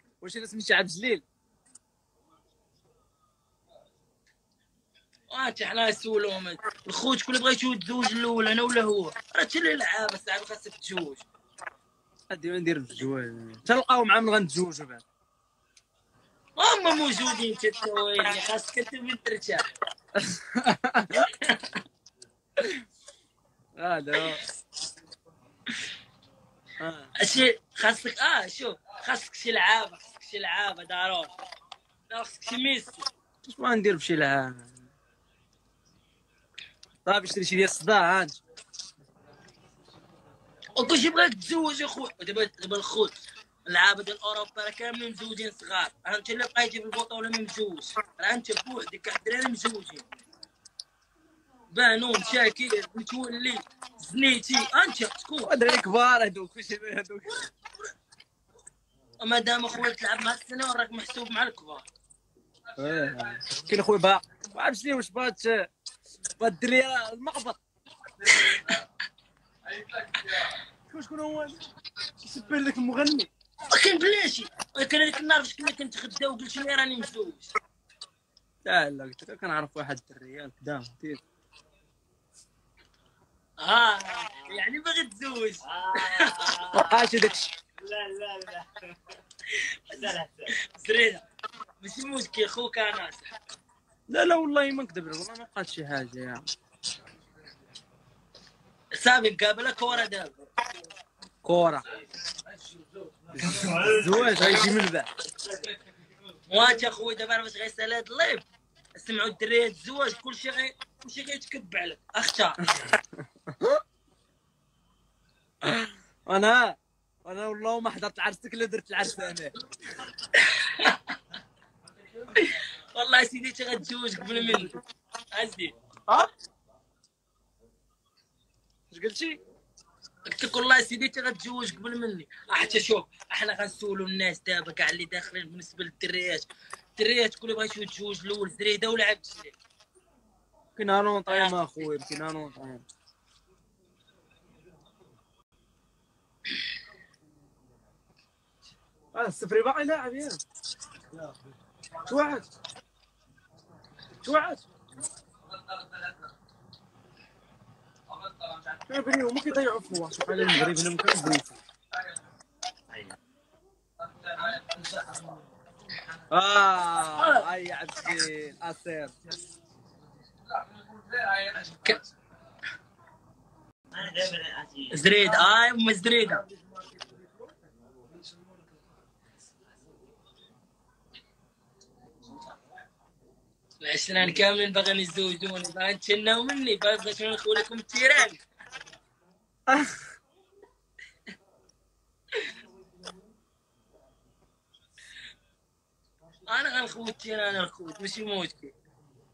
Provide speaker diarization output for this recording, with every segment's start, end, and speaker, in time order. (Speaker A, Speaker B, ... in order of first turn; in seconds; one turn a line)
Speaker A: 0.2-1.2
Speaker B: 5.3-11.3
Speaker A: 12.3-15.0
Speaker B: 16.6-19.6
Speaker A: 20.1-21.3
Speaker B: 21.2-21.8
Speaker A: 23.8-24.4
Speaker A: 26.8-27.1
Speaker B: 27.2-31.3
Speaker B: 32.1-33.1
Speaker A: 33.5-34.9
Speaker A: 37.0-38.4
Speaker B: 40.7-50.0
Speaker B: 51.7-55.7
Speaker A: 55.4-57.5
Speaker B: 59.2-61.9
Speaker A: 62.8-65.7
Speaker A: 66.4-67.6
Speaker B: 68.2-68.8
Speaker A: 68.2-68.7
Speaker B: 70.2-70.5
Speaker A: 70.9-71.7
Speaker A: 72.2-73.3
Speaker B: 73.7-77.5
Speaker A: 78.7-81.2
Speaker B: 83.6-86.8
Speaker C: 85.7-88.7
Speaker A: 86.7-87.5
Speaker B: 89.5-91.2
Speaker C: 90.0-90.5
Speaker B: 91.8-93.3
Speaker A: 94.1-96.5
Speaker B: 98.9-100.4
Speaker A: 101.4-101.8
Speaker A: 103.3-105.1
Speaker C: 103.7-104.1
Speaker B: 106.5-112.6
Speaker A: 112.7-113.8
Speaker A: 115.6-119.5
Speaker B: 120.2-121.2
Speaker B: 122.3-124.8
Speaker A: 124.4-124.8
Speaker B: 125.3-125.7
Speaker A: 128.9-129.4
Speaker B: 130.3-139.6
Speaker A: 140.8-142.8
Speaker B: 141.3-141.9
Speaker A: 149.2-150.4
Speaker A: 152.0-152.5
Speaker A: 154.2-154.6
Speaker A: 158.7-161.6
Speaker A: 166.3-169.1
Speaker B: 167.2-167.5
Speaker B: 171.4-172.0
Speaker C: 173.9-174.9
Speaker B: 174.9-176.4
Speaker A: 176.7-177.3
Speaker B: 183.8-188.4
Speaker A: 189.7-190.0
Speaker B: 196.5-198.7